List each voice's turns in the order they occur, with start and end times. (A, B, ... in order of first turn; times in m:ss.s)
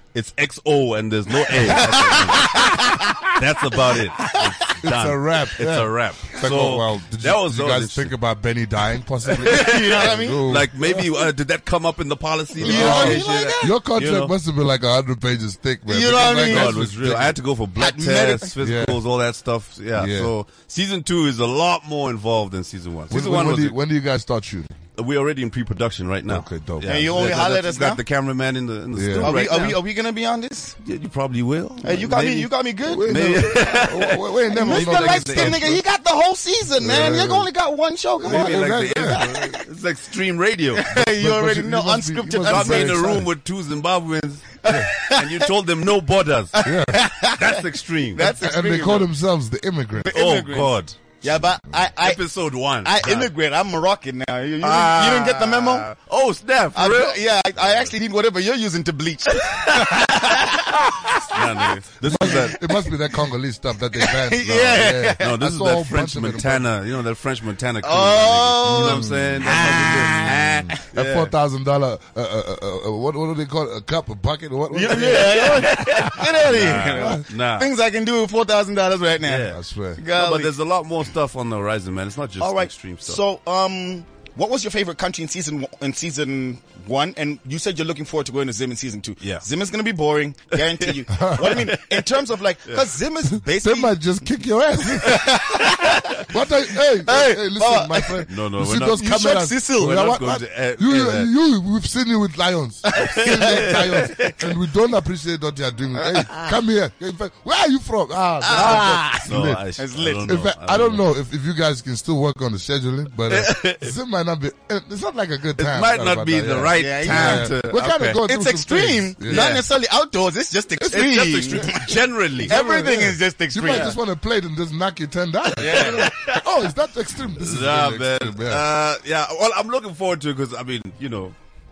0:00.1-0:08.1 A
0:01.7-0:03.3 B
0:04.8-0:11.0 C
0:09.4-0:14.3 A
0:09.4-0:10.6 B
0:12.6-0:17.4 C
0:12.6-0:13.8 B
0:15.9-0:16.8 B
0:16.4-0:23.8 A
0:17.8-0:18.5 B
0:18.6-0:19.0 C
0:20.0-0:20.3 C
0:23.1-0:24.7 C
0:25.0-0:29.8 A
0:26.3-0:27.1 C
0:26.8-0:28.0 B
0:29.0-0:29.4 C
0:29.2-0:30.8 B
0:30.8-0:32.5 A
0:31.8-0:33.8 B
0:32.9-0:35.8 C
0:33.0-0:35.8 A
0:34.5-0:39.6 B
0:36.8-0:37.5 C
0:38.2-0:39.2 C
0:38.2-0:40.9 A
0:40.8-0:43.2 B
0:40.9-0:43.3 C
0:42.4-0:46.6 A
0:44.6-0:45.5 B
0:46.6-0:49.1 B
0:46.6-0:47.1 C
0:47.2-0:48.3 A
0:48.2-0:50.2 C
0:50.0-0:52.2 B
0:50.1-0:51.0 A
0:51.3-0:51.8 C
0:52.0-0:53.3 A
0:52.8-0:55.9 B
0:54.6-0:57.9 A
0:56.8-1:01.3 B
0:59.5-1:00.5 A
1:01.2-1:02.6 A
1:02.0-1:06.7 C
1:04.0-1:05.2 B
1:05.2-1:11.3 A
1:07.8-1:10.6 B
1:08.7-1:16.1 C
1:14.7-1:20.5 B
1:14.9-1:17.7 A
1:16.9-1:17.2 C
1:19.2-1:19.6 A
1:19.5-1:20.0 C
1:20.1-1:23.2 A
1:22.4-1:34.0 B
1:30.8-1:32.1 A
1:31.1-1:31.7 C
1:33.3-1:35.3 C
1:35.0-1:36.2 B
1:36.3-1:49.6 C
1:37.0-1:38.3 B
1:38.3-1:39.1 A
1:38.9-1:40.1 B
1:39.8-1:41.3 A
1:42.9-1:44.3 B
1:43.0-1:44.4 A
1:48.4-1:49.2 B
1:48.5-1:51.0 A
1:49.8-1:50.4 B
1:50.2-1:59.5 C
1:53.3-1:53.9 A
1:55.6-1:58.2 A
1:56.8-1:57.5 B
1:58.2-2:04.0 B
1:59.3-1:59.6 A
2:00.8-2:02.6 A
2:02.4-2:08.6 C
2:05.6-2:06.5 A
2:05.7-2:06.0 B
2:07.4-2:11.3 A